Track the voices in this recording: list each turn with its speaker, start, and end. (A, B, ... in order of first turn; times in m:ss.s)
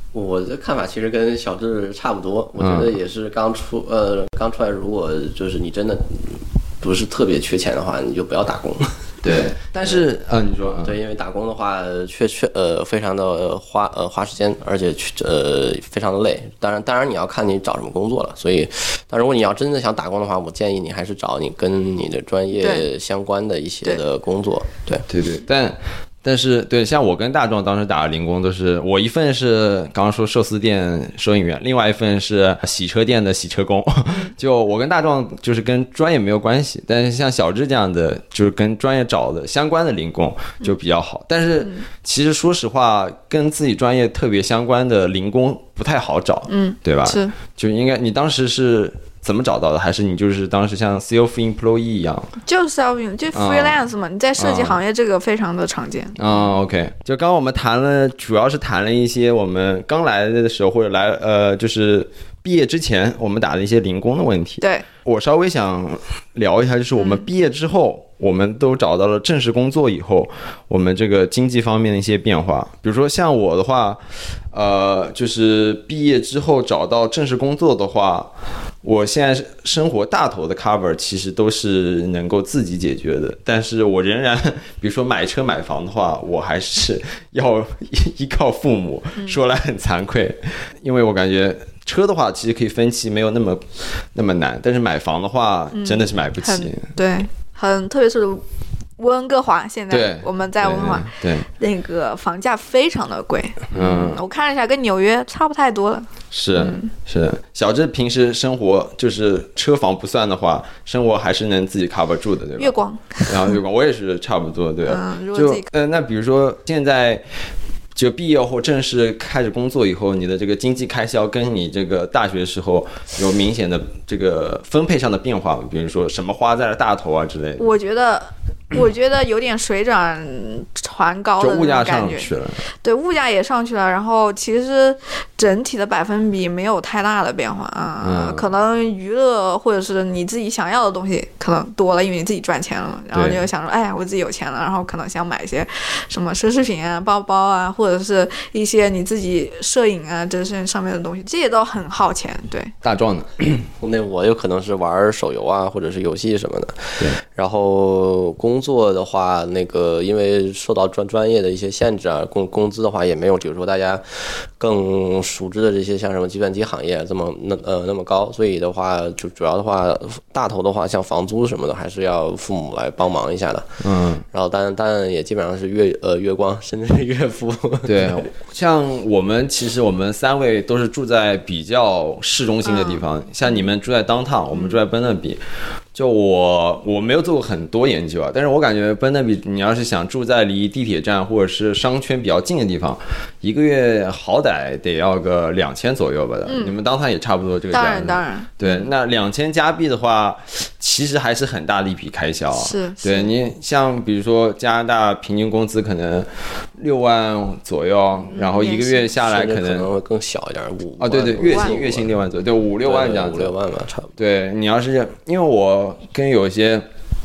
0:00.1-0:09.3 A
0:02.6-0:02.9 B
0:09.2-0:10.9 B
0:10.8-0:25.0 A
0:22.6-0:22.9 C
0:25.1-0:52.3 B
0:46.5-0:47.3 C
0:52.5-0:56.5 C
0:53.4-0:53.8 B
0:54.4-0:54.8 B
0:56.2-1:14.0 B
1:04.6-1:04.9 C
1:07.0-1:07.3 C
1:14.5-1:18.3 B
1:18.8-1:36.9 B
1:35.7-1:38.4 C
1:39.0-1:46.9 C
1:39.9-1:41.5 B
1:43.7-1:44.2 B
1:46.3-1:52.8 B
1:52.6-1:53.6 C
1:53.3-1:57.2 B
1:54.9-1:55.7 C
1:58.0-2:07.7 B
2:07.6-2:12.3 C
2:11.4-2:12.6 B
2:12.8-2:32.7 C
2:18.0-2:18.5 B
2:23.1-2:23.4 B
2:32.8-2:33.7 B
2:33.8-2:53.8 A
2:53.8-2:54.2 B
2:54.3-2:58.2 A
2:57.8-3:05.4 B
3:02.6-3:03.6 C
3:04.5-3:04.8 C
3:05.9-3:29.9 B
3:16.5-3:16.8 C
3:17.7-3:18.9 C
3:22.6-3:23.3 C
3:28.3-3:29.1 C
3:29.2-3:32.1 A
3:31.0-3:33.5 B
3:31.4-3:31.7 C
3:32.8-3:34.1 A
3:34.2-3:36.8 B